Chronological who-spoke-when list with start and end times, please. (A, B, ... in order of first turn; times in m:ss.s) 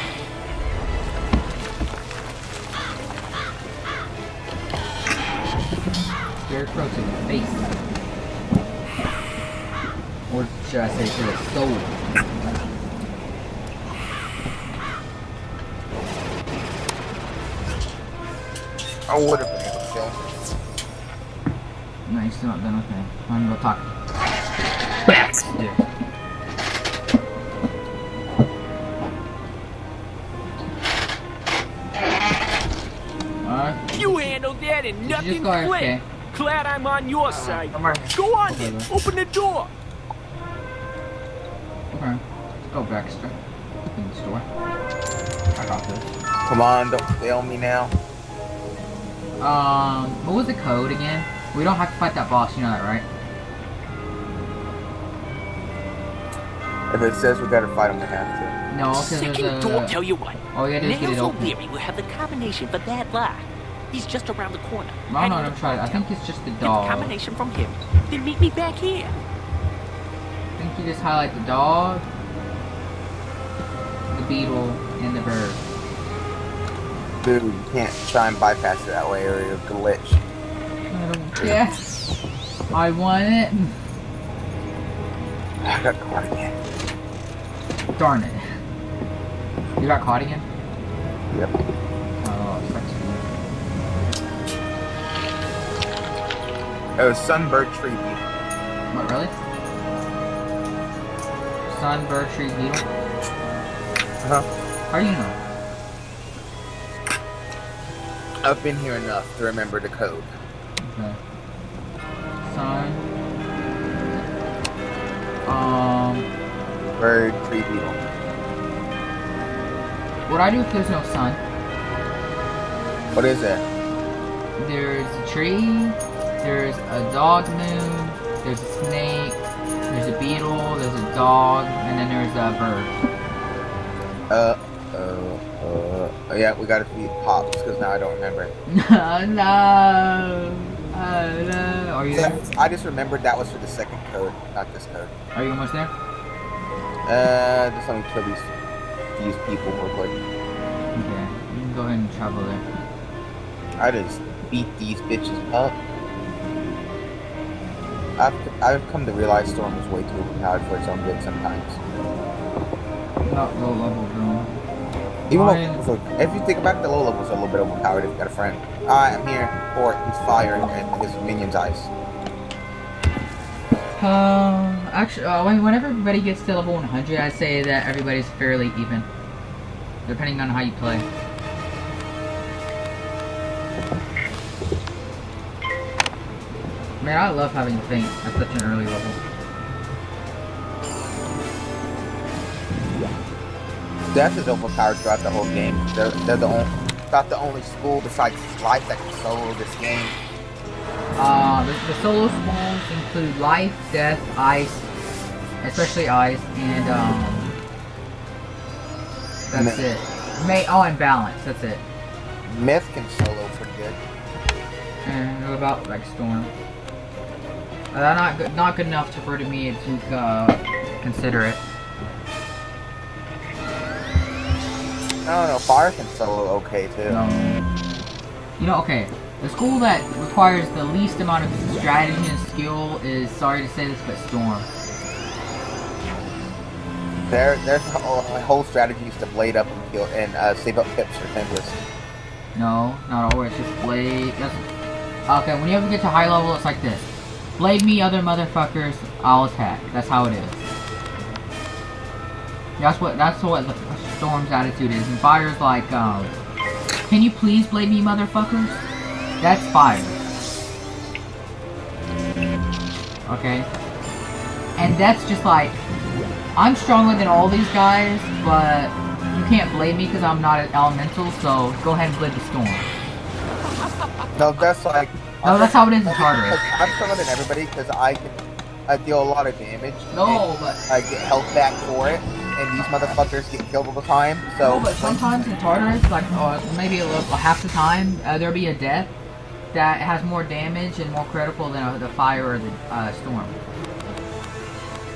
0:06.4-0:07.8 A
0:10.3-0:12.6 A
0:19.1-0:20.2 B
0:22.1-0:23.9 A
0:25.1-0:25.8 A
0:33.4-0:34.3 A
0:34.0-0:39.7 C
0:35.0-0:36.0 A
0:37.3-0:38.9 A
0:41.9-0:43.4 A
0:43.9-0:44.5 A
0:45.6-0:46.1 A
0:46.5-0:47.9 B
0:49.4-0:53.1 A
0:56.9-0:58.6 B
0:58.7-1:00.0 A
0:58.9-1:06.0 C
1:00.5-1:01.5 A
1:05.1-1:07.1 A
1:06.6-1:09.2 C
1:10.6-1:12.0 A
1:14.1-1:15.6 A
1:17.2-1:20.2 B
1:20.9-1:21.9 A
1:22.7-1:23.8 A
1:25.6-1:26.6 B
1:28.0-1:28.4 A
1:29.8-1:30.4 A
1:31.3-1:31.6 B
1:32.2-1:33.2 A
1:37.0-1:38.2 B
1:38.9-1:39.3 A
1:41.7-1:42.8 A
1:44.2-1:44.5 B
1:44.9-1:45.4 A
1:48.4-1:50.3 B
1:50.8-1:51.2 A
1:52.4-1:53.1 A
1:55.5-1:56.3 A
1:57.0-1:58.0 B
2:00.3-2:01.4 A
2:03.1-2:03.6 B
2:04.6-2:13.0 A
2:14.3-2:18.5 B
2:18.7-2:22.4 A
2:22.1-2:25.1 B
2:25.4-2:25.9 A
2:27.1-2:28.5 B
2:29.2-2:30.2 B
2:30.9-2:32.6 A
2:33.8-2:35.8 B
2:38.2-2:41.8 B
2:43.2-2:44.6 A
2:45.3-2:45.8 A
2:45.3-2:51.9 B
2:54.0-2:59.1 A
3:00.1-3:01.1 A
3:07.0-3:09.2 A
3:14.1-3:20.2 B
3:21.2-3:24.9 A
3:25.6-3:27.5 A
3:29.5-3:31.8 A
3:29.5-3:29.9 B
3:32.4-3:34.0 B
3:35.0-3:36.5 A
3:37.9-3:41.6 A
3:45.2-3:47.2 B
3:47.1-3:47.6 A
3:48.6-3:54.7 A
3:57.3-4:01.8 B
4:02.6-4:04.6 A
4:05.3-4:10.7 A
4:12.8-4:16.4 A
4:17.1-4:18.8 A
4:19.4-4:20.2 A
4:23.3-4:23.7 A
4:24.8-4:25.8 A
4:26.6-4:32.9 A
4:33.6-4:34.4 C
4:34.4-4:45.4 B
4:35.4-4:36.6 A
4:40.1-4:40.8 A
4:42.8-4:43.2 A
4:44.6-4:49.1 A
4:49.7-4:53.5 A